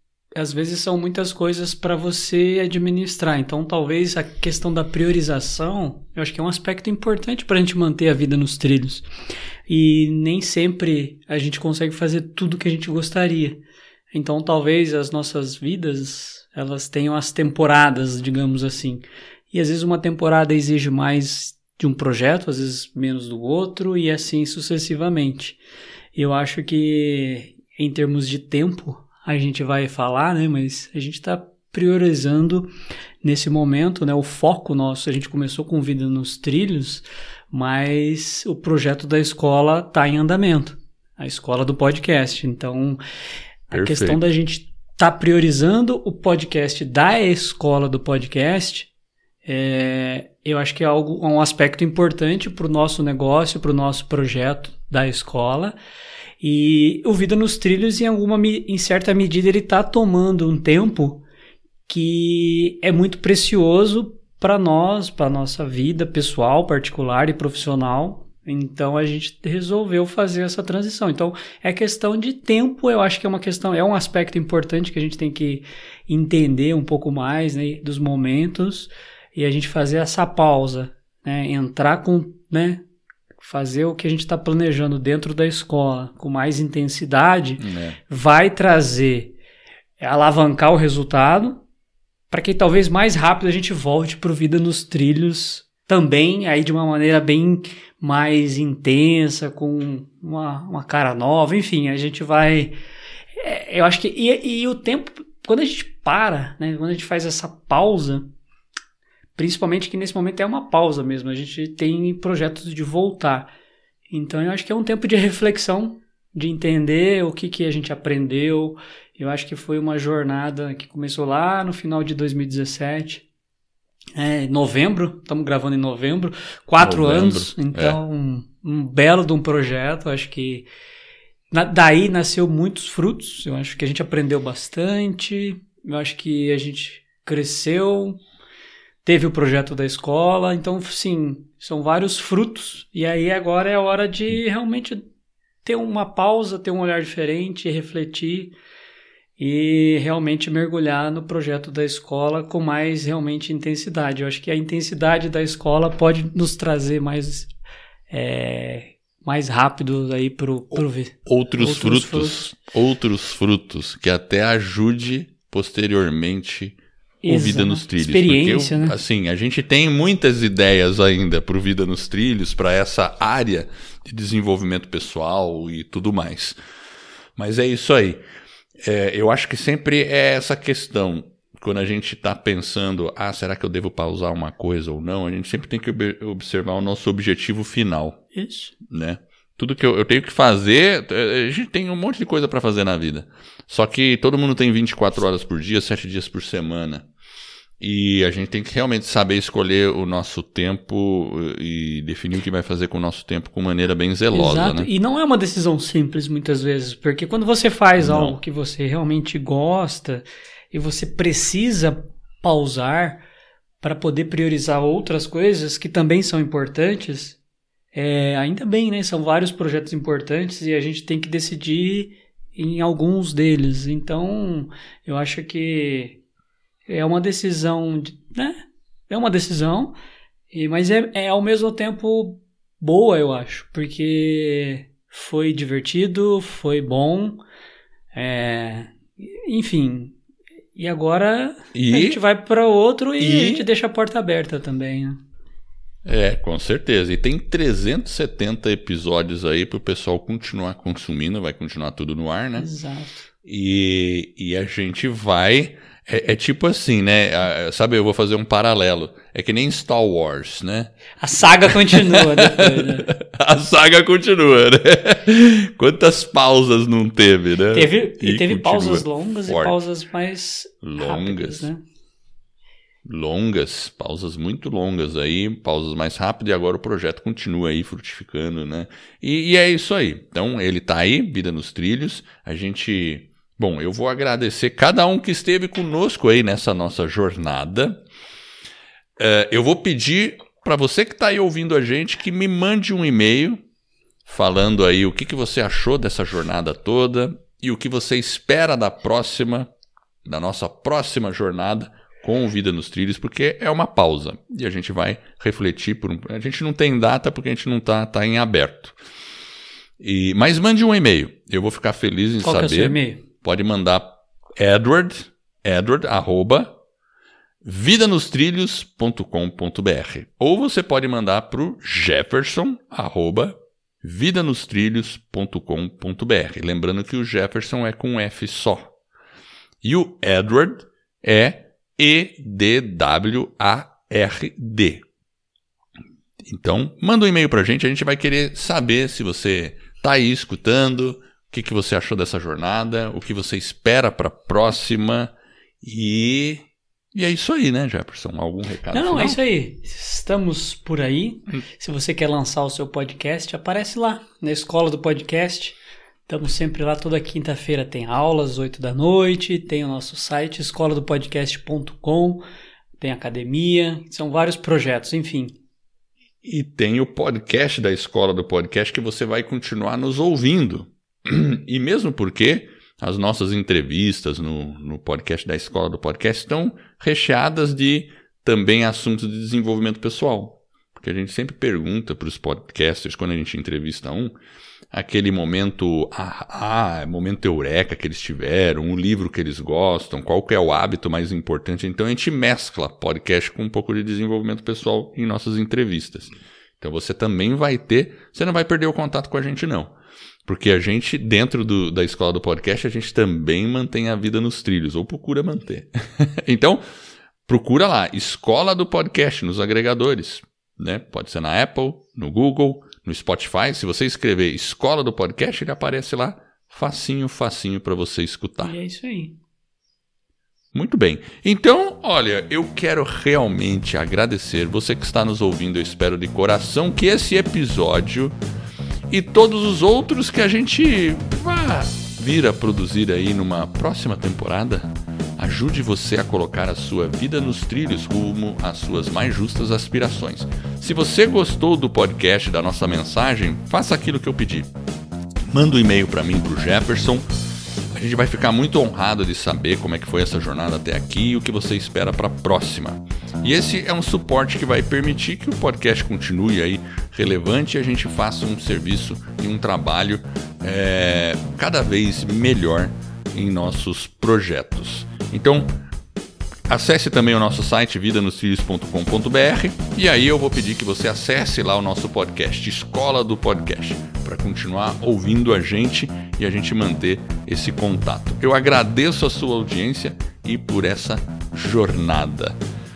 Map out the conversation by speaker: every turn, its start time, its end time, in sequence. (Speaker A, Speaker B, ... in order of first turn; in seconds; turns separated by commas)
Speaker A: 0.3-9.1, Speaker A: 9.7-13.6, Speaker A: 14.1-25.6, Speaker A: 26.1-32.7, Speaker A: 33.2-43.0, Speaker A: 43.7-48.9, Speaker B: 43.7-44.2, Speaker A: 49.4-55.8, Speaker A: 56.4-61.2, Speaker A: 61.9-82.8, Speaker A: 83.4-89.3, Speaker B: 87.6-88.0, Speaker A: 90.0-91.6, Speaker A: 92.3-102.7, Speaker A: 103.3-108.3, Speaker A: 109.4-113.5, Speaker A: 114.1-123.2, Speaker A: 124.2-130.7, Speaker B: 126.8-128.0, Speaker A: 131.5-138.2, Speaker A: 139.0-145.0, Speaker A: 145.7-148.5, Speaker A: 149.4-157.5, Speaker A: 158.1-162.5, Speaker B: 160.7-176.6, Speaker A: 167.2-169.0, Speaker B: 177.4-178.2, Speaker B: 178.8-188.2, Speaker A: 188.3-188.7, Speaker B: 188.9-197.1, Speaker B: 197.8-204.9, Speaker A: 204.3-213.2, Speaker B: 208.0-208.3, Speaker A: 213.8-217.4, Speaker A: 217.9-226.2, Speaker A: 226.9-228.6, Speaker A: 229.1-230.0, Speaker A: 230.5-237.4, Speaker A: 238.1-240.2, Speaker A: 240.7-245.2, Speaker B: 241.7-242.2, Speaker B: 243.2-243.7, Speaker B: 246.0-252.7, Speaker A: 252.6-253.3, Speaker B: 253.4-260.9, Speaker A: 261.2-263.1, Speaker B: 262.0-269.8, Speaker A: 267.7-271.8, Speaker B: 270.8-271.7, Speaker B: 273.1-288.0, Speaker B: 289.2-293.6, Speaker B: 294.2-299.7, Speaker B: 300.2-309.0, Speaker B: 310.0-316.8, Speaker A: 312.4-313.2, Speaker B: 317.6-328.9, Speaker B: 329.8-335.0, Speaker B: 336.5-349.4, Speaker A: 348.9-362.4, Speaker A: 363.0-365.6, Speaker B: 366.4-384.4, Speaker B: 384.9-399.9, Speaker B: 400.4-406.8, Speaker B: 407.4-418.8, Speaker A: 418.6-419.4, Speaker B: 420.7-428.3, Speaker B: 429.1-444.7, Speaker B: 445.5-447.2, Speaker B: 447.9-465.8, Speaker B: 466.7-482.6